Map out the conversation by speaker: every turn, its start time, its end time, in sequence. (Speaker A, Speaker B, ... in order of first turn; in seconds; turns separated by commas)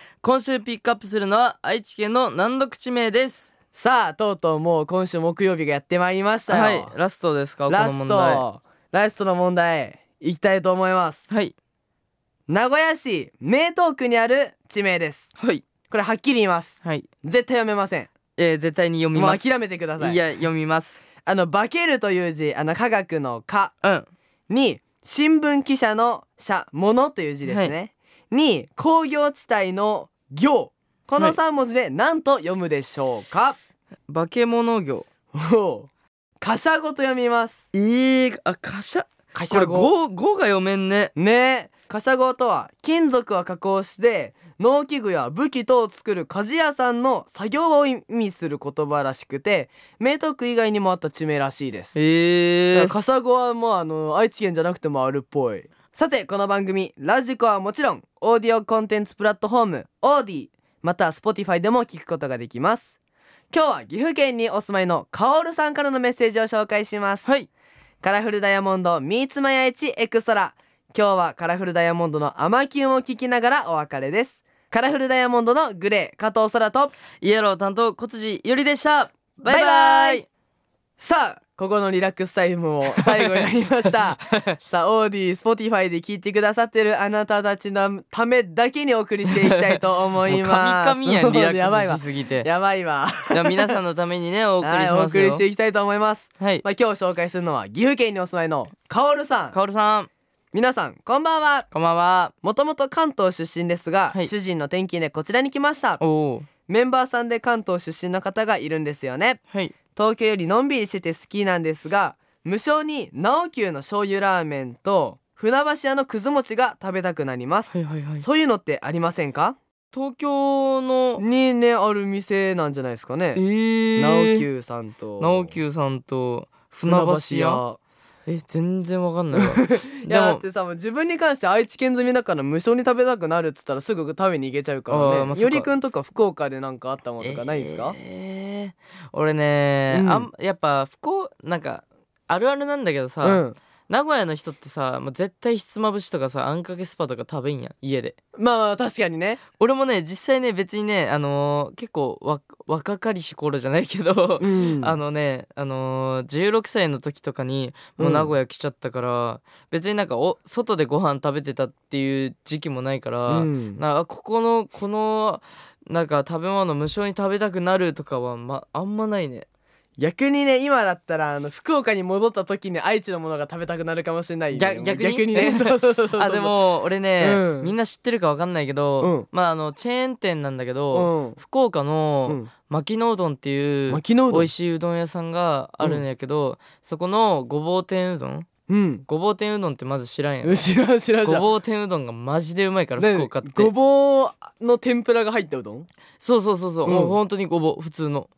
Speaker A: 0.2-3.5, Speaker B: 3.7-6.9, Speaker A: 6.5-8.4, Speaker B: 7.7-11.2, Speaker A: 11.3-11.5, Speaker B: 12.5-15.3, Speaker A: 15.4-15.6, Speaker B: 15.9-18.1, Speaker A: 18.4-21.0, Speaker B: 19.1-20.2, Speaker B: 21.2-23.7, Speaker B: 24.5-33.6, Speaker A: 27.4-27.7, Speaker A: 34.1-35.1, Speaker B: 35.3-35.9, Speaker B: 36.4-37.6, Speaker A: 37.7-41.1, Speaker B: 39.3-39.9, Speaker B: 41.1-52.0, Speaker A: 51.9-52.9, Speaker B: 52.7-63.0, Speaker B: 63.5-67.3, Speaker B: 68.0-76.9, Speaker A: 77.2-80.2, Speaker B: 79.5-80.2, Speaker B: 81.0-93.8, Speaker A: 89.3-92.5, Speaker A: 93.3-95.4, Speaker B: 94.6-99.5, Speaker A: 96.4-96.6, Speaker A: 99.5-100.1, Speaker B: 100.5-101.7, Speaker A: 101.7-102.3, Speaker B: 102.4-106.0, Speaker A: 106.0-106.5, Speaker B: 106.7-109.4, Speaker B: 109.9-119.6, Speaker A: 117.7-118.2, Speaker A: 119.9-121.2, Speaker B: 121.2-123.4, Speaker A: 123.3-124.5, Speaker B: 124.0-125.5, Speaker A: 125.2-127.6, Speaker B: 126.8-127.8, Speaker A: 128.3-130.4, Speaker B: 129.3-137.9, Speaker A: 134.9-135.7, Speaker A: 137.2-148.2, Speaker B: 139.9-140.3, Speaker B: 143.2-143.6, Speaker B: 148.3-149.4, Speaker A: 149.6-169.4, Speaker B: 154.4-154.9, Speaker B: 158.0-158.3, Speaker B: 163.3-163.8, Speaker B: 170.0-176.6, Speaker A: 174.5-188.5, Speaker B: 177.2-177.7, Speaker B: 179.0-179.3, Speaker B: 180.9-181.4, Speaker B: 183.9-184.5, Speaker B: 188.7-189.1, Speaker A: 189.1-190.6, Speaker B: 190.4-191.4, Speaker A: 191.2-193.7, Speaker B: 193.0-195.9, Speaker A: 196.2-198.3, Speaker B: 196.8-197.2